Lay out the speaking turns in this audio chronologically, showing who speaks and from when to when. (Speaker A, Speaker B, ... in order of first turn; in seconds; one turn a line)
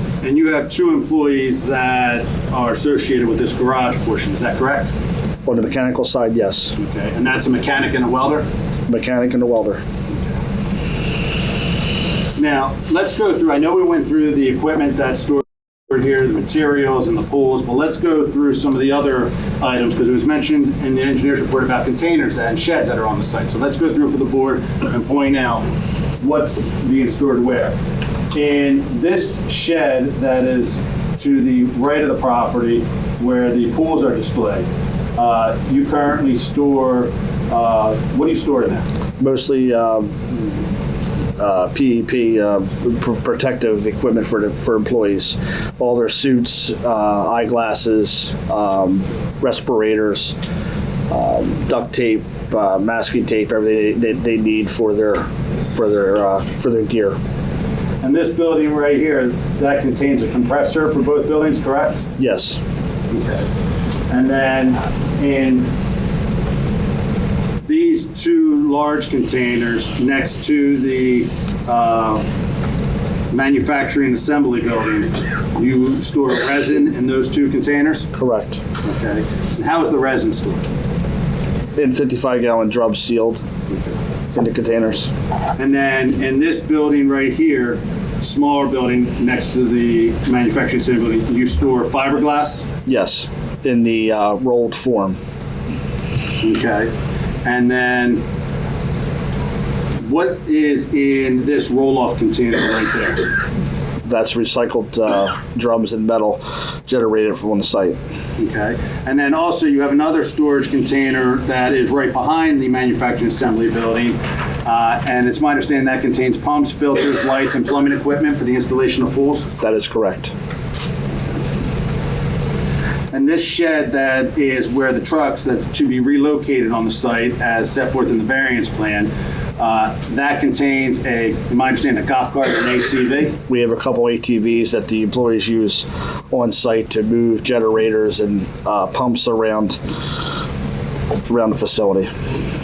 Speaker A: 0.2-4.9
Speaker B: 5.5-6.8
Speaker A: 6.8-8.4
Speaker B: 8.9-9.8
Speaker A: 12.3-25.6
Speaker A: 26.2-27.8
Speaker A: 28.3-38.8
Speaker B: 39.2-40.4
Speaker B: 41.4-50.4
Speaker B: 51.1-57.2
Speaker A: 58.0-62.1
Speaker B: 62.2-62.6
Speaker A: 63.1-63.5
Speaker A: 64.1-65.7
Speaker A: 67.7-72.2
Speaker A: 73.3-78.1
Speaker B: 78.1-78.6
Speaker A: 78.8-80.6
Speaker B: 81.8-83.4
Speaker B: 84.3-85.1
Speaker A: 85.6-92.7
Speaker B: 92.8-95.2
Speaker A: 96.4-96.9
Speaker A: 97.4-98.2
Speaker A: 100.0-103.3
Speaker B: 104.0-108.0
Speaker A: 108.4-119.5
Speaker B: 119.6-120.3
Speaker A: 123.1-133.4
Speaker B: 133.5-139.8
Speaker B: 141.3-142.1